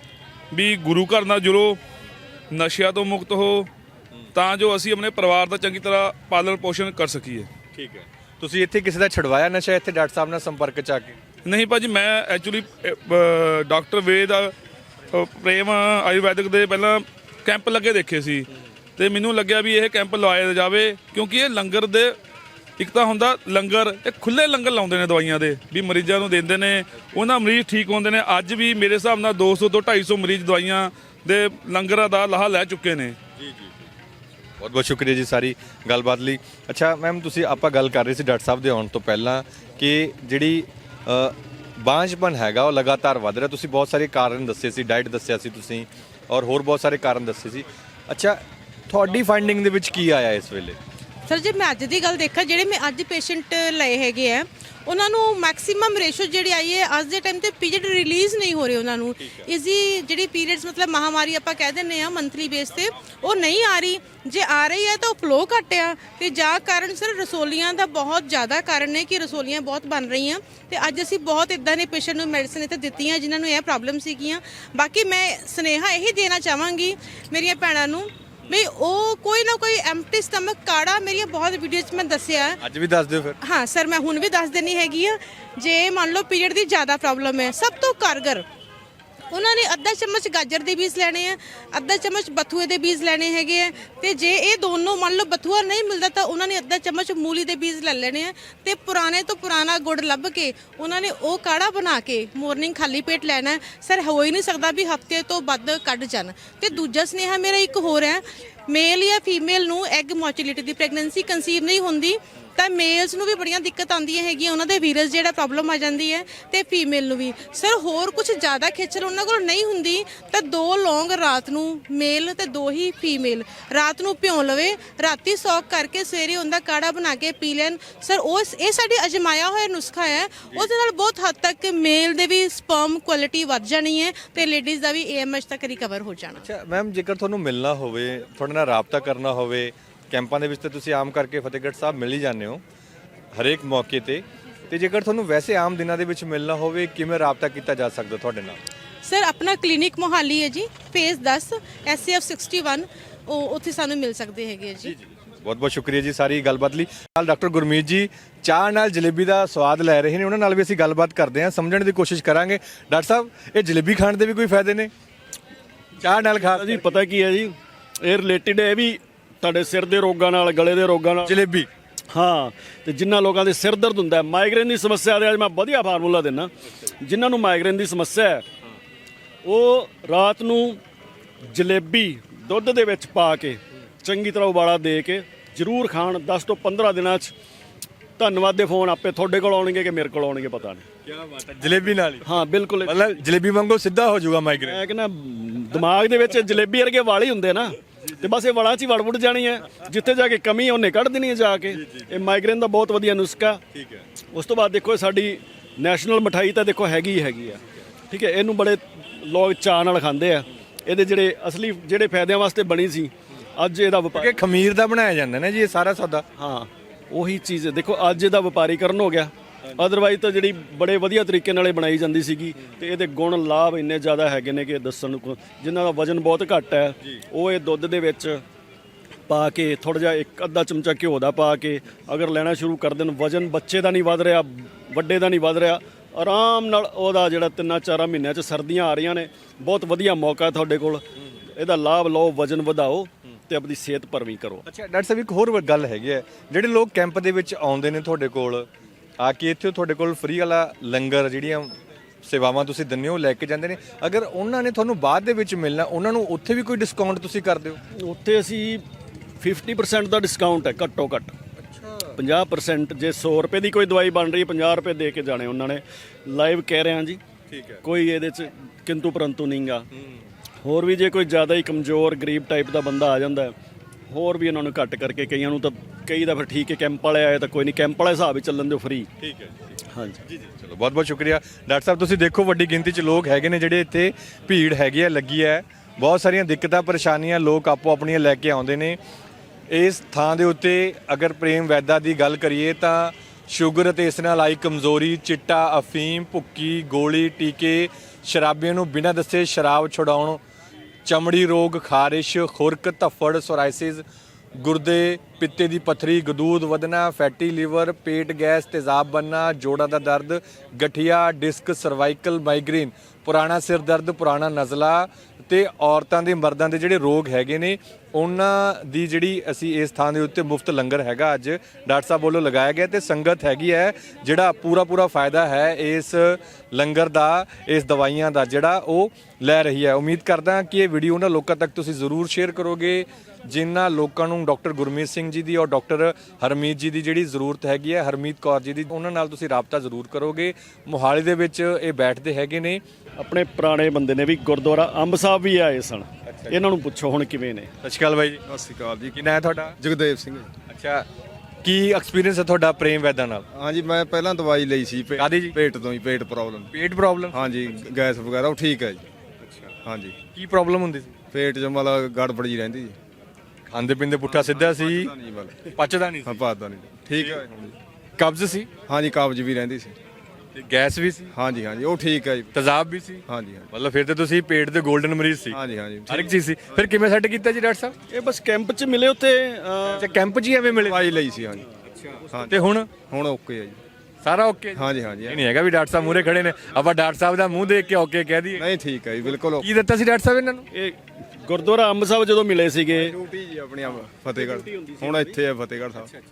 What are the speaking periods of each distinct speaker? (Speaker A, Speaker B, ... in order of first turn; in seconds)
Speaker A: 0.5-1.8, 2.5-3.7, 4.3-7.5, 11.4-14.5, 15.1-22.1, 22.8-33.2
Speaker B: 7.8-11.2, 34.6-50.8, 82.6-83.4, 136.4-142.6, 143.3-148.6, 154.8-164.9, 166.0-166.8, 171.2-171.7, 191.1-192.3, 192.8-194.8, 201.8-202.1, 203.7-204.0, 214.1-216.2, 244.7-248.7, 249.2-257.8, 267.5-267.8, 279.2-279.6, 280.3-289.0, 289.7-300.4, 301.0-304.0, 304.6-342.8, 346.2-346.6, 347.8-348.4, 349.1-349.8, 350.7-351.1, 351.6-353.4, 355.2-355.5, 356.7-357.4, 360.3-361.1, 363.7-365.1, 365.7-366.4, 367.1-367.4, 368.2-368.7, 370.5-371.3, 372.5-377.9, 379.9-381.1, 382.1-382.9, 384.2-388.6, 389.6-390.7
Speaker C: 51.3-82.6, 83.4-88.4, 89.3-136.4, 149.0-154.9
Speaker D: 166.4-171.4, 172.1-178.4, 179.4-180.8, 181.5-187.3, 188.2-190.8, 192.2-193.2, 194.5-203.6, 204.3-214.4, 216.4-228.4, 229.3-241.0, 241.6-244.6, 257.9-258.8, 259.4-261.3, 262.2-267.2, 267.8-269.9, 270.6-273.5, 274.1-279.1, 279.9-280.2, 343.2-347.7, 378.1-380.1, 390.7-393.1, 394.3-395.4
Speaker E: 348.4-349.2, 349.8-350.5, 353.5-356.7, 357.3-359.0, 359.8-360.2, 361.3-362.9, 364.3-365.7, 366.2-367.7, 368.9-369.9, 371.3-372.5, 373.3-373.7, 375.5-376.4, 380.8-381.6, 382.3-383.8, 384.7-385.4, 388.6-389.6, 392.9-396.1